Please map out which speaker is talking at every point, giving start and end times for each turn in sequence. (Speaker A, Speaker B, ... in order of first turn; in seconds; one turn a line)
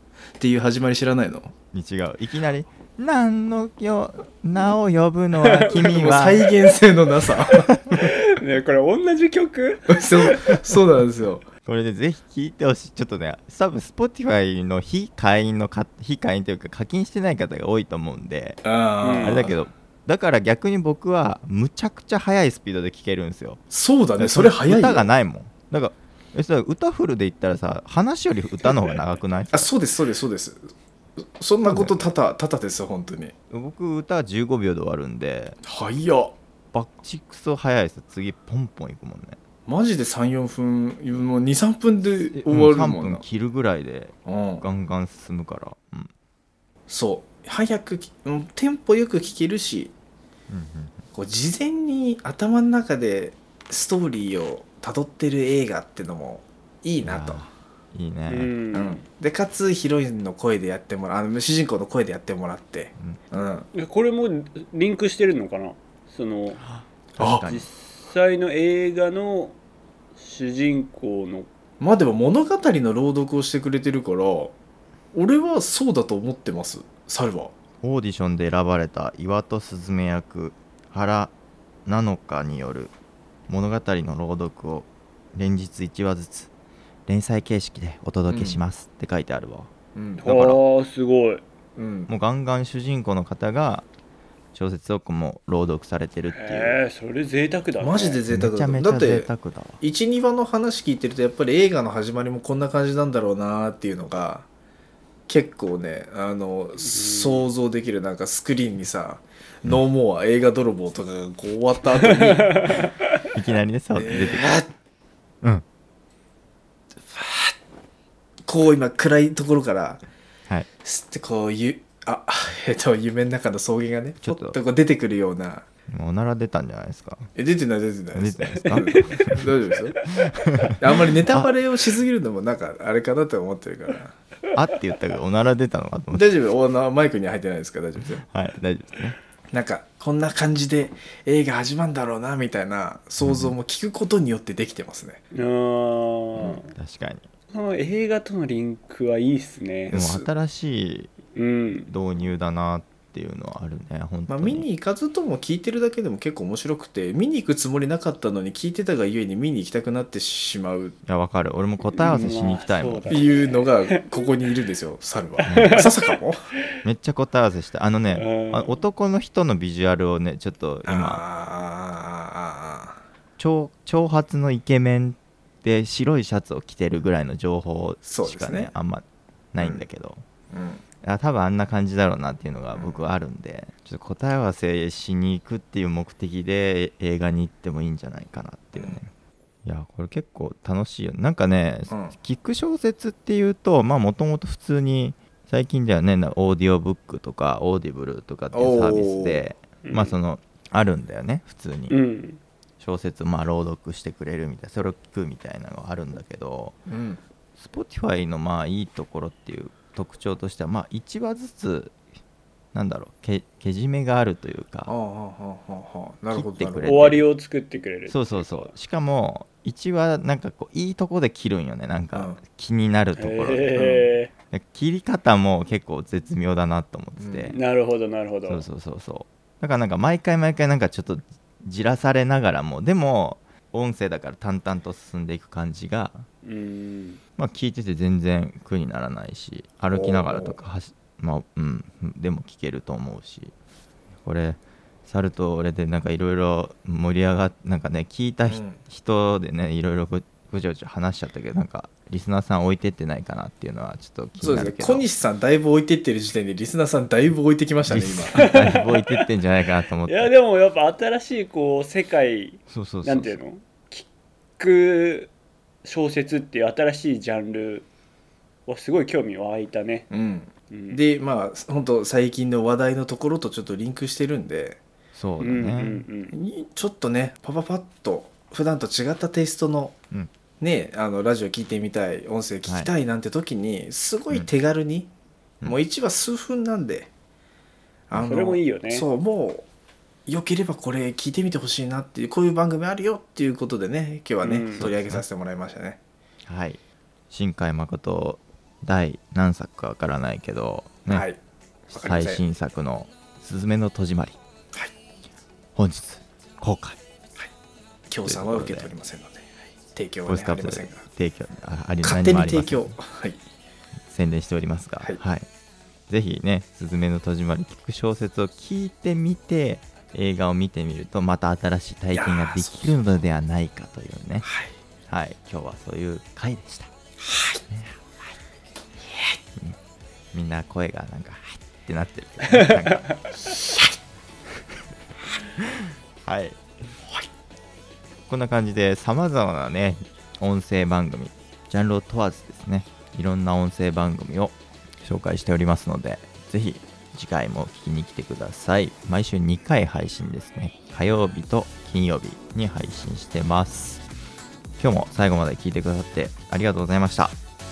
Speaker A: 0.4-1.5
Speaker B: 1.7-6.5
Speaker C: 5.4-6.2
Speaker A: 5.7-8.0
Speaker C: 7.9-10.6
Speaker A: 9.9-11.5
Speaker B: 11.7-18.6
Speaker A: 18.6-19.6
Speaker C: 19.0-19.5
Speaker B: 19.2-23.6
Speaker A: 23.7-25.1
Speaker B: 24.2-29.7
Speaker A: 28.7-29.0
Speaker A: 29.5-33.3
Speaker B: 31.6-32.1
Speaker B: 33.5-35.6
Speaker A: 35.6-36.4
Speaker B: 36.7-39.4
Speaker A: 39.7-43.2
Speaker B: 42.4-46.1
Speaker A: 44.3-44.6
Speaker A: 46.9-49.9
Speaker B: 50.5-51.0
Speaker A: 51.1-57.5
Speaker B: 57.0-58.5
Speaker C: 58.3-59.0
Speaker A: 58.7-63.7
Speaker C: 63.7-66.6
Speaker B: 67.2-67.7
Speaker A: 67.2-67.5
Speaker C: 67.4-69.6
Speaker C: 70.2-71.5
Speaker A: 71.8-74.5
Speaker A: 75.1-77.5
Speaker B: 77.8-81.3
Speaker B: 81.9-82.9
Speaker B: 83.5-86.5
Speaker B: 87.1-89.7
Speaker A: 88.3-88.6
Speaker A: 89.9-90.3
Speaker C: 90.2-91.4
Speaker B: 90.2-90.6
Speaker A: 91.8-92.1
Speaker B: 92.1-93.9
Speaker B: 94.5-96.8
Speaker C: 96.3-98.2
Speaker A: 97.8-99.3
Speaker B: 98.3-99.8
Speaker A: 99.8-104.5
Speaker A: 105.3-112.7
Speaker C: 106.8-107.5
Speaker C: 112.0-113.2
Speaker B: 113.3-114.6
Speaker A: 113.9-114.7
Speaker A: 117.1-117.5
Speaker A: 118.5-120.0
Speaker A: 120.8-125.7
Speaker B: 124.2-124.6
Speaker B: 125.9-127.3
Speaker A: 127.4-130.0
Speaker B: 128.1-129.5
Speaker C: 128.6-129.0
Speaker B: 130.2-131.5
Speaker A: 130.8-134.2
Speaker B: 134.5-136.3
Speaker A: 136.1-138.2
Speaker B: 138.2-139.2
Speaker A: 139.5-145.2
Speaker B: 143.2-143.6
Speaker C: 145.3-146.7
Speaker B: 146.4-147.3
Speaker C: 147.5-149.9
Speaker A: 149.9-150.3
Speaker B: 149.9-151.1
Speaker C: 151.3-151.9
Speaker B: 151.9-154.7
Speaker A: 154.3-161.0
Speaker B: 161.1-163.2
Speaker C: 161.9-164.3
Speaker A: 163.1-166.4
Speaker C: 165.4-166.2
Speaker B: 165.5-165.8
Speaker B: 166.8-171.2
Speaker C: 168.1-168.8
Speaker A: 170.9-173.0
Speaker B: 173.4-180.2
Speaker A: 178.0-178.7
Speaker A: 180.5-180.8
Speaker B: 181.0-189.1
Speaker A: 182.8-183.0
Speaker B: 189.6-202.0
Speaker A: 191.9-192.1
Speaker A: 198.5-199.4
Speaker C: 199.8-200.1
Speaker C: 201.9-202.4
Speaker B: 202.8-206.8
Speaker A: 206.9-207.2
Speaker B: 207.6-212.0
Speaker B: 212.7-214.9
Speaker A: 214.9-216.9
Speaker B: 216.3-217.3
Speaker C: 216.8-218.7
Speaker B: 218.1-223.8
Speaker A: 222.1-222.4
Speaker C: 223.2-224.3
Speaker A: 223.8-224.1
Speaker B: 224.5-227.6
Speaker A: 227.2-227.5
Speaker C: 227.5-228.7
Speaker B: 228.5-236.3
Speaker C: 236.4-237.2
Speaker B: 237.4-243.5
Speaker A: 239.9-240.6
Speaker B: 244.2-255.1
Speaker A: 248.5-248.8
Speaker A: 254.4-258.5
Speaker B: 257.9-260.3
Speaker C: 258.3-259.3
Speaker C: 260.0-264.1
Speaker B: 262.7-263.4
Speaker C: 264.6-265.3
Speaker C: 265.8-267.9
Speaker C: 268.6-270.1
Speaker A: 270.1-274.8
Speaker C: 270.7-271.0
Speaker B: 275.1-276.1
Speaker C: 275.4-276.4
Speaker A: 276.3-280.0
Speaker A: 280.6-285.1
Speaker B: 282.6-282.9
Speaker A: 285.6-287.1
Speaker A: 288.1-289.7
Speaker C: 288.1-289.1
Speaker A: 290.3-296.0
Speaker C: 294.4-294.9
Speaker B: 294.8-295.2
Speaker B: 296.5-296.8
Speaker B: 297.3-301.3
Speaker A: 301.1-301.4
Speaker A: 301.9-302.4
Speaker B: 301.9-304.4
Speaker B: 305.8-307.0
Speaker A: 308.1-311.1
Speaker B: 308.2-308.9
Speaker B: 310.3-313.0
Speaker A: 312.0-313.4
Speaker B: 314.1-315.5
Speaker B: 316.1-324.5
Speaker A: 322.1-322.9
Speaker A: 324.4-324.7
Speaker B: 325.1-326.9
Speaker A: 327.2-327.6
Speaker B: 327.7-328.0
Speaker A: 329.1-329.4
Speaker B: 330.3-333.6
Speaker C: 332.5-333.0
Speaker B: 335.6-336.6
Speaker B: 338.3-354.0
Speaker B: 354.8-357.4